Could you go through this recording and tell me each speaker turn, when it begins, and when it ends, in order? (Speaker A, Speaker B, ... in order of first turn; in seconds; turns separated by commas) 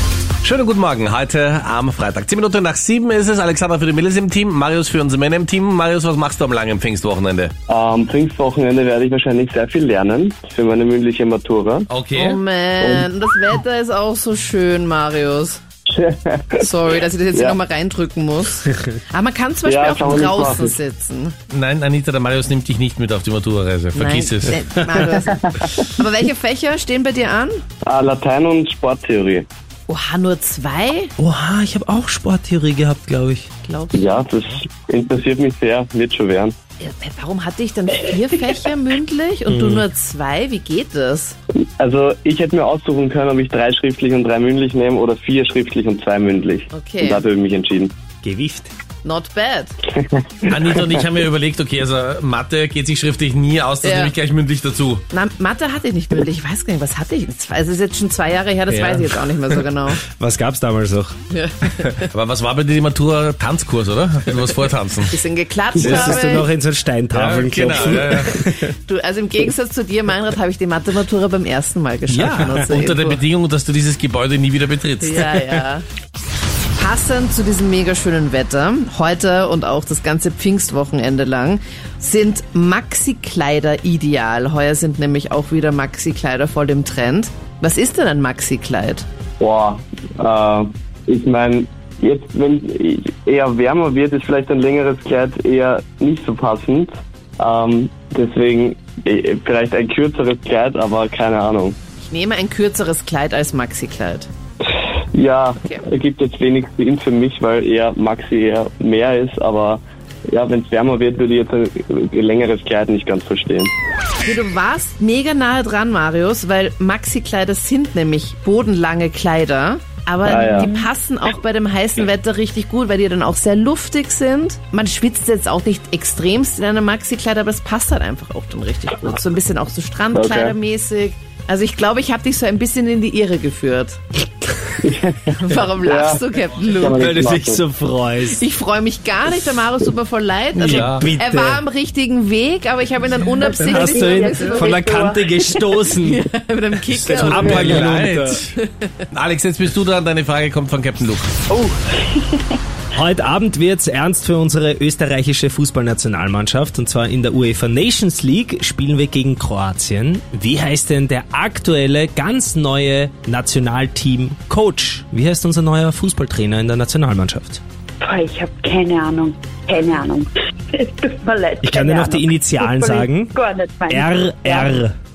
Speaker A: 0.4-7.5, Speaker B: 7.7-11.9, Speaker A: 11.9-12.4, Speaker C: 12.2-15.6, Speaker B: 12.8-13.1, Speaker B: 15.9-16.6, Speaker C: 16.6-21.4, Speaker B: 19.6-20.8, Speaker A: 21.5-24.7, Speaker C: 23.9-27.6, Speaker B: 25.6-25.9, Speaker B: 27.9-29.5, Speaker C: 29.9-31.1, Speaker D: 31.2-33.5, Speaker C: 33.6-34.3, Speaker B: 33.9-36.5, Speaker C: 36.8-41.4, Speaker D: 39.5-39.8, Speaker B: 41.8-48.0, Speaker C: 46.7-47.3, Speaker D: 48.2-48.7, Speaker C: 49.0-49.8, Speaker B: 50.1-50.8, Speaker A: 50.5-55.0, Speaker C: 53.8-54.1, Speaker C: 55.1-60.0, Speaker D: 58.7-59.0, Speaker D: 60.1-61.2, Speaker C: 61.3-62.1, Speaker A: 62.1-65.1, Speaker C: 65.1-66.5, Speaker D: 65.8-68.7, Speaker A: 65.8-66.1, Speaker A: 67.1-68.4, Speaker C: 67.9-73.2, Speaker A: 72.1-75.6, Speaker D: 72.2-72.7, Speaker C: 75.0-75.8, Speaker C: 76.8-89.1, Speaker B: 89.4-101.8, Speaker C: 102.1-104.3, Speaker B: 105.1-113.7, Speaker C: 114.2-134.0, Speaker B: 120.2-120.7, Speaker E: 120.6-120.8, Speaker B: 130.1-130.6, Speaker B: 134.8-136.2, Speaker C: 135.3-137.1, Speaker B: 136.7-137.6, Speaker D: 137.0-138.4, Speaker C: 138.2-144.8, Speaker D: 140.6-141.6, Speaker A: 140.6-141.1, Speaker D: 143.2-146.2, Speaker E: 143.5-145.2, Speaker C: 145.8-147.9, Speaker D: 146.9-148.4, Speaker A: 147.0-148.5, Speaker C: 148.6-148.9, Speaker A: 149.1-151.3, Speaker E: 151.5-152.6, Speaker D: 152.9-167.6, Speaker E: 168.0-174.8, Speaker D: 171.6-173.3, Speaker D: 173.9-174.9